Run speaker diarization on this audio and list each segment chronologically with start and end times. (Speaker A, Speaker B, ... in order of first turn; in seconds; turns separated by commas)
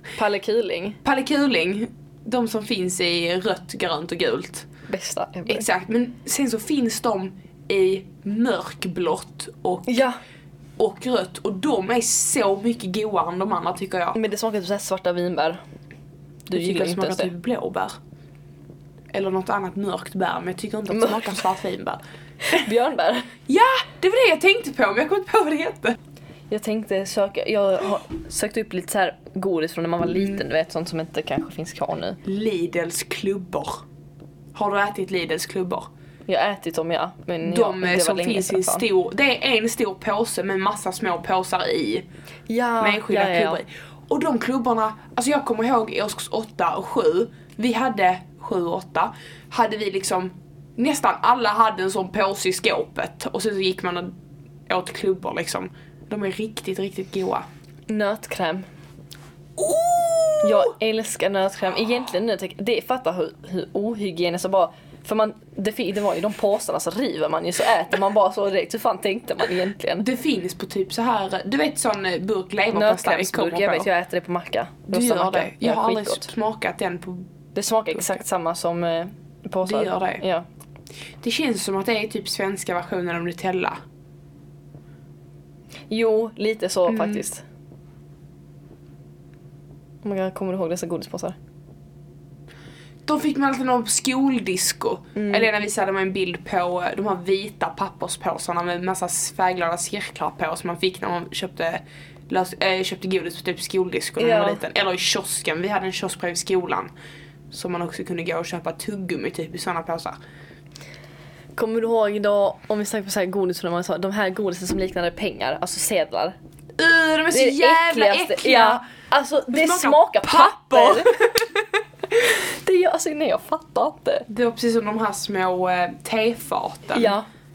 Speaker A: 0.2-1.0, Speaker B: 1.0-4.7, Speaker A: 4.9-5.7, Speaker B: 5.5-10.0, Speaker A: 9.9-10.2, Speaker B: 10.8-14.2, Speaker A: 14.2-15.6, Speaker A: 16.5-17.3, Speaker B: 16.5-17.9, Speaker B: 19.1-22.0, Speaker A: 20.9-21.3, Speaker A: 22.5-23.3, Speaker B: 23.5-26.0, Speaker A: 26.5-32.2, Speaker B: 30.1-30.4, Speaker B: 32.2-33.8, Speaker B: 34.5-35.9, Speaker A: 36.3-38.9, Speaker B: 37.4-42.1, Speaker A: 42.5-43.6, Speaker B: 42.8-54.1, Speaker B: 54.7-57.5, Speaker A: 57.9-58.6, Speaker B: 59.6-60.7, Speaker A: 60.4-70.1, Speaker B: 70.0-73.9, Speaker A: 72.7-76.3, Speaker B: 74.9-77.3, Speaker A: 77.5-80.5, Speaker B: 77.9-78.2, Speaker B: 79.7-80.2, Speaker B: 81.2-83.8, Speaker A: 85.9-87.4, Speaker B: 86.9-87.2, Speaker A: 90.0-91.4, Speaker B: 93.1-106.9, Speaker A: 95.2-95.5, Speaker A: 104.2-104.6, Speaker B: 107.5-110.2, Speaker A: 111.6-116.3, Speaker B: 116.8-118.9, Speaker A: 117.3-121.1, Speaker B: 119.5-121.7, Speaker A: 122.2-124.3, Speaker B: 124.3-127.2, Speaker A: 127.0-127.3